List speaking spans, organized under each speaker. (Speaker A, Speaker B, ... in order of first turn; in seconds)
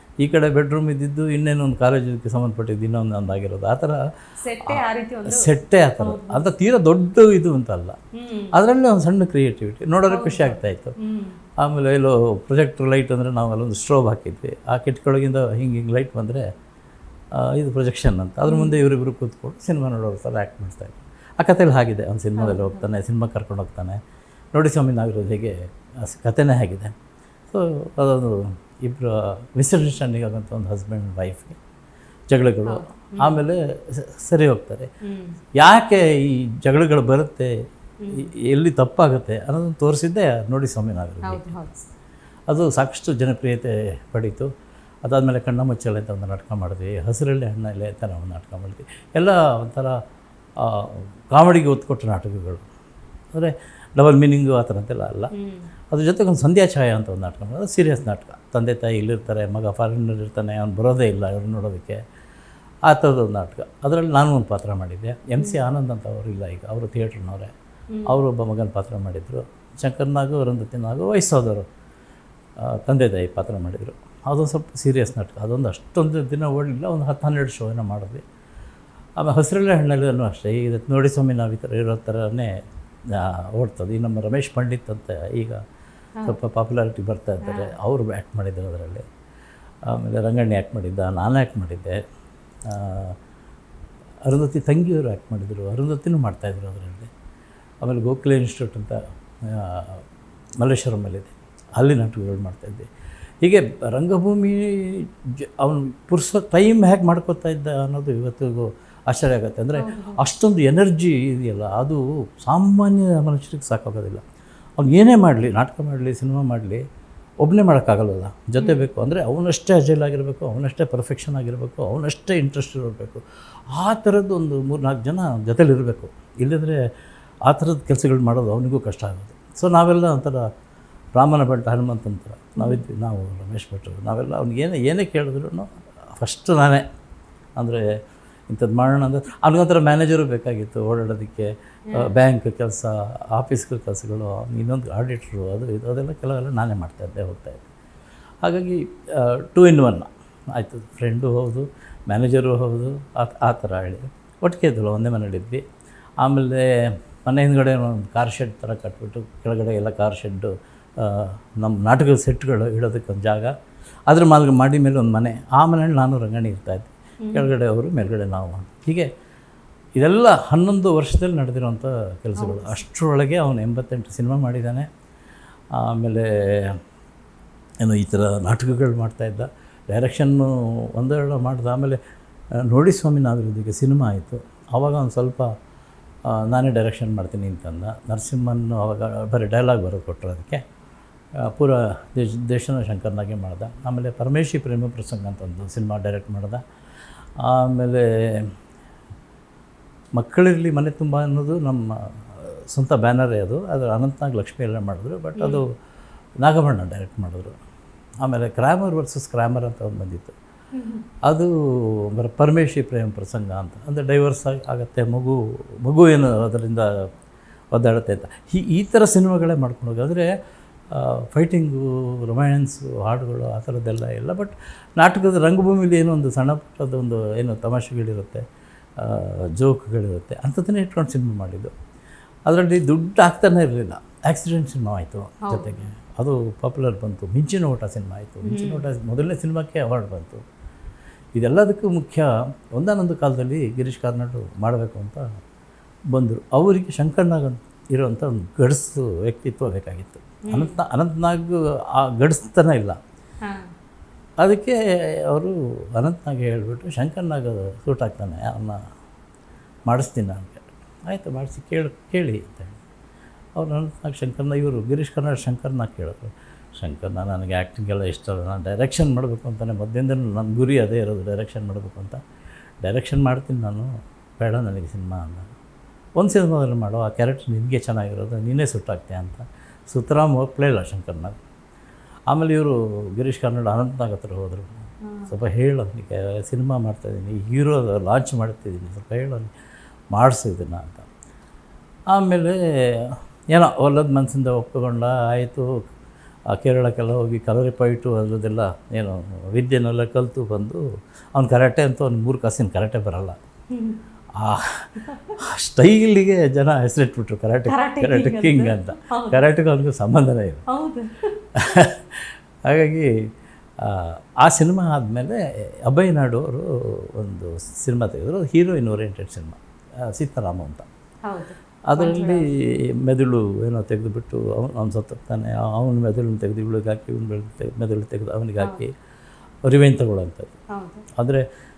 Speaker A: 0.2-4.0, 4.6-8.0, 8.5-10.9, 11.6-16.4, 17.3-24.0, 24.5-26.9, 27.5-31.6, 32.3-34.9, 35.6-37.5, 38.1-41.5, 42.5-44.5, 45.0-50.0, 50.6-52.6, 53.3-55.3, 55.9-62.0, 62.9-67.5, 68.0-71.7, 72.6-78.2, 79.2-82.5, 83.1-85.6, 86.2-89.0, 89.9-92.0, 92.7-93.2, 94.2-97.1, 97.8-100.0, 100.6-102.9, 103.4-114.2, 114.8-116.8, 117.4-126.8, 127.5-130.4, 131.2-136.8, 137.6-137.8, 138.5-147.6, 148.4-155.6, 156.2-163.5, 164.1-169.1, 170.0-174.9, 175.7-176.8, 177.8-182.0, 182.6-185.5, 186.2-190.6, 191.4-196.6, 197.4-198.5, 200.1-205.7, 206.4-207.5, 208.2-210.3, 211.2-216.9, 217.7-220.3, 220.9-228.4, 229.0-231.7, 232.5-240.4, 241.3-245.2, 246.1-253.0, 254.4-258.8, 259.9-262.8, 263.6-272.2, 272.8-275.5, 276.2-281.3, 282.3-284.7, 285.3-289.5, 290.1-291.1, 292.1-295.8, 296.5-300.8, 301.4-303.4, 304.4-310.6, 311.5-313.1, 313.8-320.9, 321.9-328.9, 329.6-330.5, 331.2-331.4
Speaker B: 4.4-6.5, 8.1-8.5, 10.1-11.4, 18.4-18.8, 22.4-22.9, 32.6-33.4, 35.0-35.4, 38.0-38.3, 41.2-41.9, 55.3-55.7, 65.4-65.6, 67.9-68.2, 87.4-87.7, 109.7-110.2, 118.6-118.8, 167.2-167.5, 172.4-172.8, 205.4-205.6, 210.7-211.0, 235.4-235.8, 238.4-238.8, 250.5-250.8, 285.0-285.3, 303.7-304.0, 305.0-305.3, 307.6-309.5, 310.7-311.4, 321.2-322.5, 328.6-328.8, 330.7-331.0